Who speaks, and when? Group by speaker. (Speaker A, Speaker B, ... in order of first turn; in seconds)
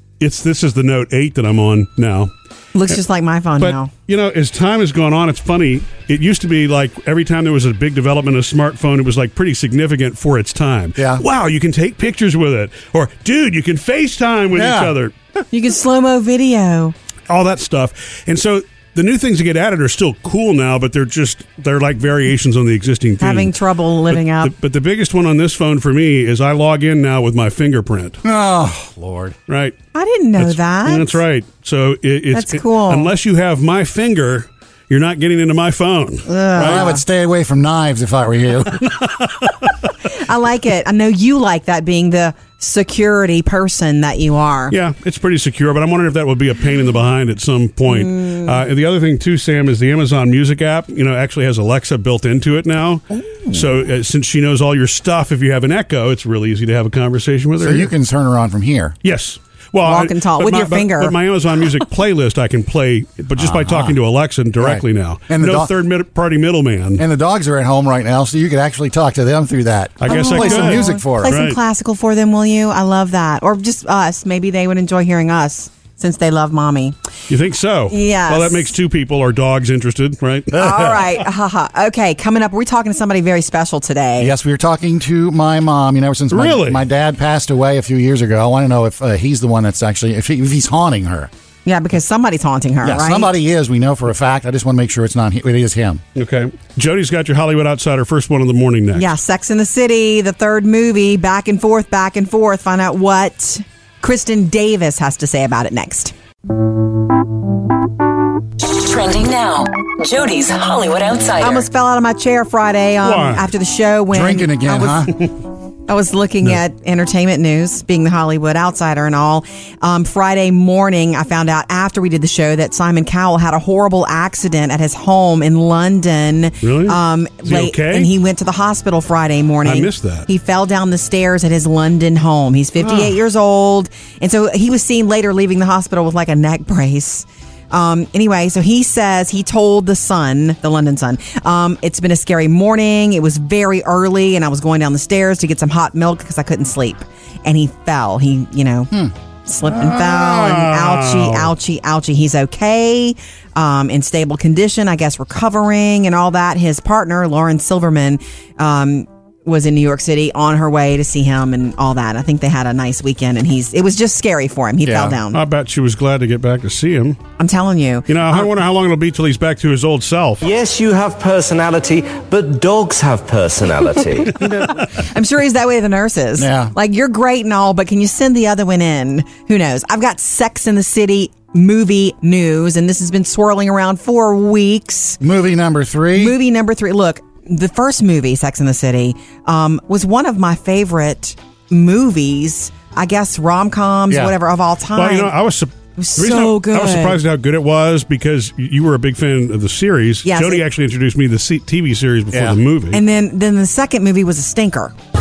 Speaker A: 0.2-2.3, 3.6-15.1, 17.3-23.6, 24.1-28.2, 29.5-29.8, 30.4-36.9, 38.8-39.7, 44.7-57.9, 59.0-67.0, 70.0-71.6, 77.3-80.6, 86.3-86.8, 96.2-99.1, 113.0-113.5, 126.6-128.1, 129.6-130.3, 150.3-151.5, 165.3-167.2, 168.1-170.4, 194.9-203.0
Speaker B: 2.8-3.9, 15.5-16.9, 23.2-24.5, 29.9-31.2, 32.3-33.1, 36.3-37.0, 40.2-44.8, 47.9-48.6, 59.8-61.2, 70.1-77.0, 77.9-78.7, 80.5-84.3, 91.7-93.3, 98.9-106.1, 111.4-115.2, 115.9-148.9, 149.5-165.4, 167.4-168.5, 174.9-185.2, 186.2-195.3, 196.0-197.2, 200.2-200.7, 202.9-204.9
Speaker C: 11.0-11.2, 14.5-14.9, 28.2-29.4, 36.6-38.8, 57.6-59.0, 63.4-64.0, 64.6-65.7, 67.0-71.4, 80.6-81.0, 84.2-91.3, 92.8-96.0, 114.1-115.2, 149.8-150.3, 164.8-165.2, 176.4-176.7, 185.2-186.3, 194.1-194.3, 202.3-202.6
Speaker D: 108.6-111.7
Speaker E: 170.4-174.7